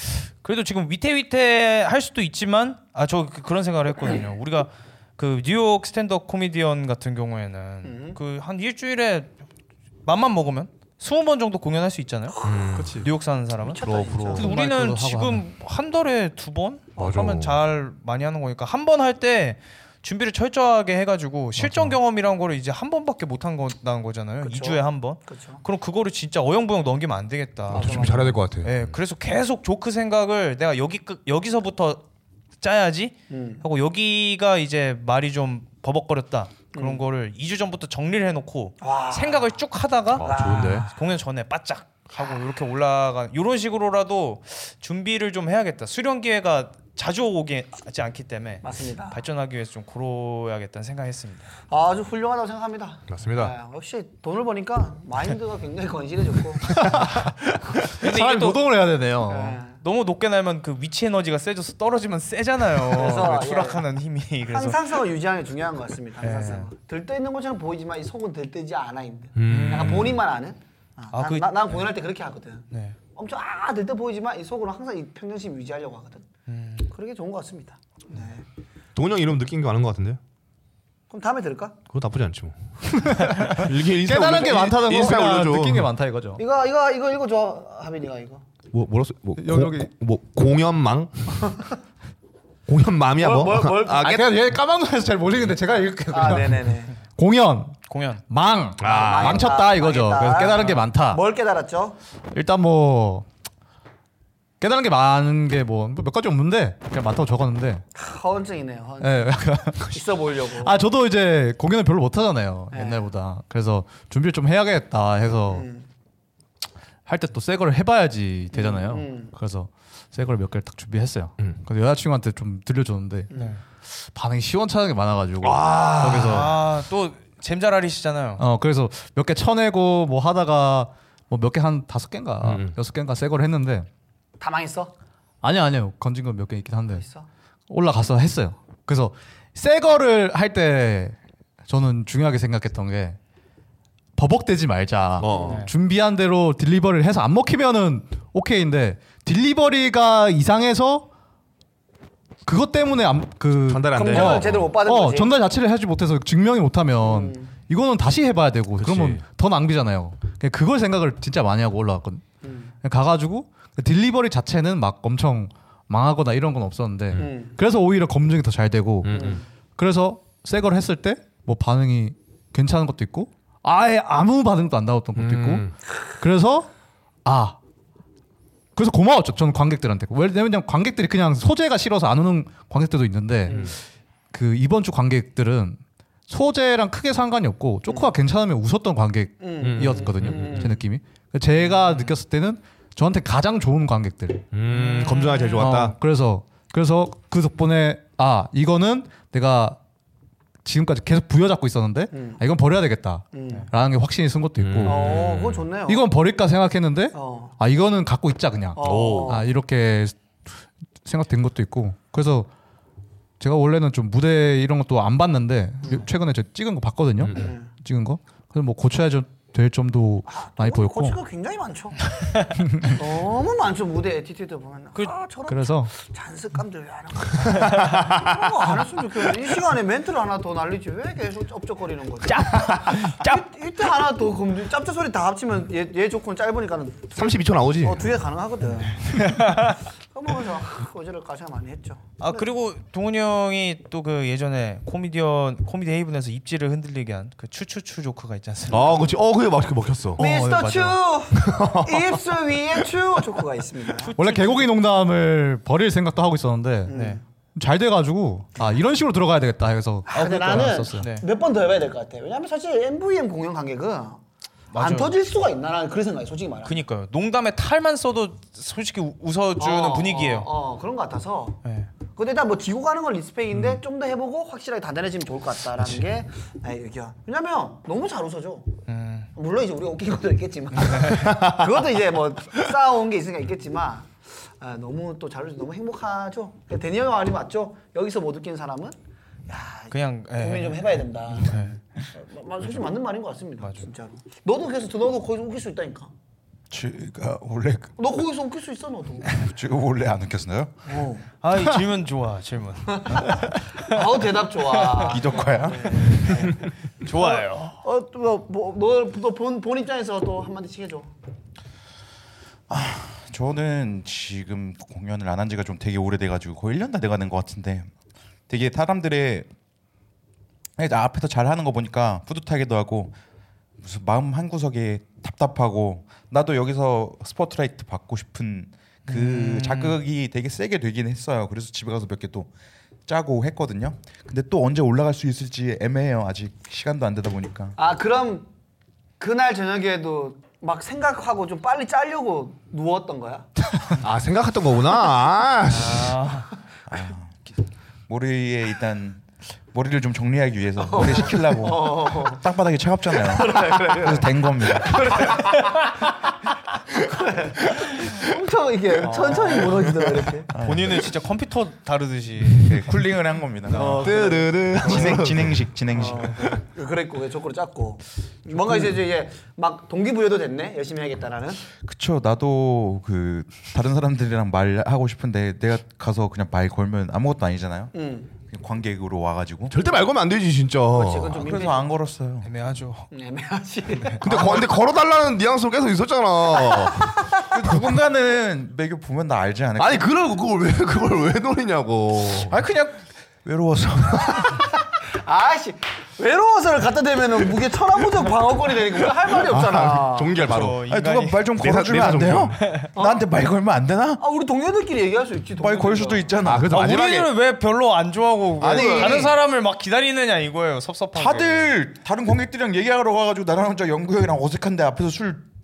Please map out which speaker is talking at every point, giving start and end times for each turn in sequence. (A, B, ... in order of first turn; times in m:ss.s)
0:00.4-0:09.3 A
0:07.8-0:08.2 B
0:10.0-0:12.4 A
0:12.4-0:12.7 B
0:12.4-0:13.1 C
0:12.8-0:13.1 D
0:13.0-0:32.0 A
0:13.6-0:14.5 B
0:13.8-0:14.5 C
0:14.3-0:15.4 D
0:17.0-0:17.6 C
0:21.6-0:22.0 D
0:24.4-0:25.6 B
0:27.7-0:28.4 B
0:27.7-0:28.9 C
0:32.6-0:51.5 A
0:33.3-0:33.6 B
0:36.7-0:37.0 B
0:38.8-0:39.6 B
0:40.1-0:40.9 C
0:40.2-0:40.9 B
0:48.6-0:49.2 B
0:51.7-0:56.8 B
0:53.1-0:53.5 C
0:56.6-0:59.6 D
0:58.0-0:58.6 A
0:59.3-0:59.8 B
0:59.8-1:04.8 A
1:02.9-1:03.8 B
1:04.5-1:16.2 B
1:06.2-1:06.7 A
1:09.4-1:10.2 C
1:09.4-1:10.2 A
1:11.1-1:11.8 A
1:16.5-1:16.9 A
1:16.8-1:18.4 B
1:18.9-1:20.2 C
1:21.1-1:21.8 B
1:21.9-1:25.9 C
1:23.0-1:26.4 D
1:26.4-1:28.4 B
1:28.7-1:31.6 C
1:29.4-1:29.9 D
1:32.7-1:34.2 C
1:33.2-1:34.3 B
1:34.0-1:37.8 D
1:36.1-1:37.0 B
1:37.9-1:38.2 A
1:38.3-1:41.2 D
1:38.8-1:39.5 C
1:38.8-1:42.0 B
1:42.3-1:43.2 D
1:44.6-1:47.8 D
1:47.9-1:50.7 B
1:49.0-1:50.0 D
1:50.5-1:55.7 D
1:52.7-1:53.1 B
1:55.5-1:55.8 B
1:57.0-2:03.3 D
1:58.5-1:59.3 B
2:03.3-2:03.6 B
2:03.3-2:03.6 A
2:03.8-2:06.6 D
2:05.4-2:06.6 C
2:06.2-2:08.4 A
2:08.4-2:13.9 D
2:12.4-2:12.7 C
2:14.4-2:14.9 B
2:15.4-2:17.0 D
2:16.9-2:17.3 B
2:17.7-2:23.2 D
2:24.2-2:31.1 D
2:25.2-2:25.6 C
2:25.3-2:25.6 B
2:25.4-2:25.7 A
2:32.4-2:42.2 D
2:33.6-2:34.6 C
2:34.0-2:35.4 B
2:37.0-2:37.5 B
2:38.8-2:39.2 C
2:42.4-2:42.7 B
2:42.8-2:56.7 D
2:47.2-2:47.6 B
2:49.0-2:49.4 C
2:49.1-2:49.4 B
2:55.2-2:55.7 C
2:57.2-2:57.6 D
2:58.8-3:03.8 D
3:03.5-3:03.7 B
3:04.3-3:14.5 D
3:07.9-3:08.1 B
3:09.4-3:10.8 B
3:09.6-3:10.7 C
3:11.8-3:12.1 A
3:14.5-3:16.0 C
3:14.6-3:15.7 A
3:15.6-3:19.8 D
3:20.6-3:25.3 D
3:22.1-3:22.4 B
3:23.3-3:23.7 B
3:24.6-3:25.7 C
3:24.8-3:26.0 B
3:25.8-3:32.5 D
3:27.1-3:27.5 B
3:28.7-3:29.5 B
3:28.8-3:29.4 C
3:33.4-3:41.2 D
3:35.8-3:36.1 B
3:37.2-3:37.5 C
3:37.4-3:37.7 B
3:40.3-3:42.1 B
3:42.6-3:43.0 D
3:42.9-4:02.5 B
3:45.5-3:45.9 D
3:47.6-3:48.3 C
3:52.2-3:53.4 A
3:57.1-3:58.2 C
3:59.1-3:59.8 A
4:02.2-4:09.2 A
4:08.7-4:10.2 C
4:10.2-4:11.0 D
4:10.2-4:14.1 B
4:11.3-4:12.2 C
4:14.0-4:14.7 A
4:14.2-4:17.0 D
4:16.9-4:17.2 B
4:16.9-4:17.2 A
4:17.5-4:21.1 D
4:20.1-4:24.2 B
4:20.1-4:21.2 A
4:24.7-4:25.2 A
4:24.7-4:26.8 B
4:26.6-4:30.5 A
4:29.6-4:31.6 B
4:31.6-4:31.9 A
4:32.1-4:38.8 B
4:38.9-4:39.3 A
4:39.3-4:49.0 B
4:41.1-4:41.7 C
4:49.5-4:56.1 B
4:49.9-4:51.8 A
4:53.6-4:53.8 A
4:56.7-4:57.9 E
4:58.0-4:59.3 B
4:59.3-5:00.8 E
5:00.8-5:01.2 B
5:01.4-5:04.0 A
5:02.9-5:11.1 B
5:04.6-5:05.2 A
5:05.0-5:06.2 E
5:06.0-5:06.5 A
5:07.0-5:07.8 A
5:12.7-5:17.9 E
5:18.5-5:19.5 E
5:20.8-5:23.2 E
5:23.8-5:32.5 E
5:29.1-5:30.0 A
5:33.1-5:37.8 E
5:37.8-5:38.5 B
5:39.2-5:43.5 B
5:43.9-5:46.2 C
5:45.7-5:46.5 A
5:46.9-5:55.4 E
5:50.8-5:52.4 B
5:53.2-5:56.0 B
5:56.9-6:00.5 B
5:57.8-5:58.2 C
5:59.0-5:59.8 A
6:00.5-6:01.1 E
6:00.5-6:03.0 A
6:02.6-6:04.1 E
6:03.7-6:04.5 A
6:03.7-6:05.2 B
6:03.8-6:05.8 C
6:04.7-6:06.4 E
6:05.9-6:11.6 B
6:06.3-6:06.6 C
6:11.8-6:19.8 E
6:17.9-6:18.3 B
6:19.7-6:21.4 C
6:20.9-6:21.8 B
6:21.3-6:22.5 E
6:21.4-6:23.1 A
6:23.1-6:24.4 B
6:24.2-6:27.3 C
6:24.3-6:24.6 E
6:26.7-6:27.2 B
6:27.5-6:30.1 E
6:29.8-6:32.6 C
6:32.5-6:34.7 E
6:34.5-6:40.4 B
6:39.3-6:40.8 C
6:40.4-6:41.5 A
6:40.9-6:44.2 E
6:41.6-6:42.6 C
6:42.6-6:42.8 A
6:42.9-6:43.2 B
6:44.2-6:46.3 B
6:45.6-6:46.8 E
6:46.4-6:47.3 C
6:46.7-6:51.7 A
6:48.6-6:49.3 E
6:48.7-6:49.2 C
6:51.1-6:55.4 E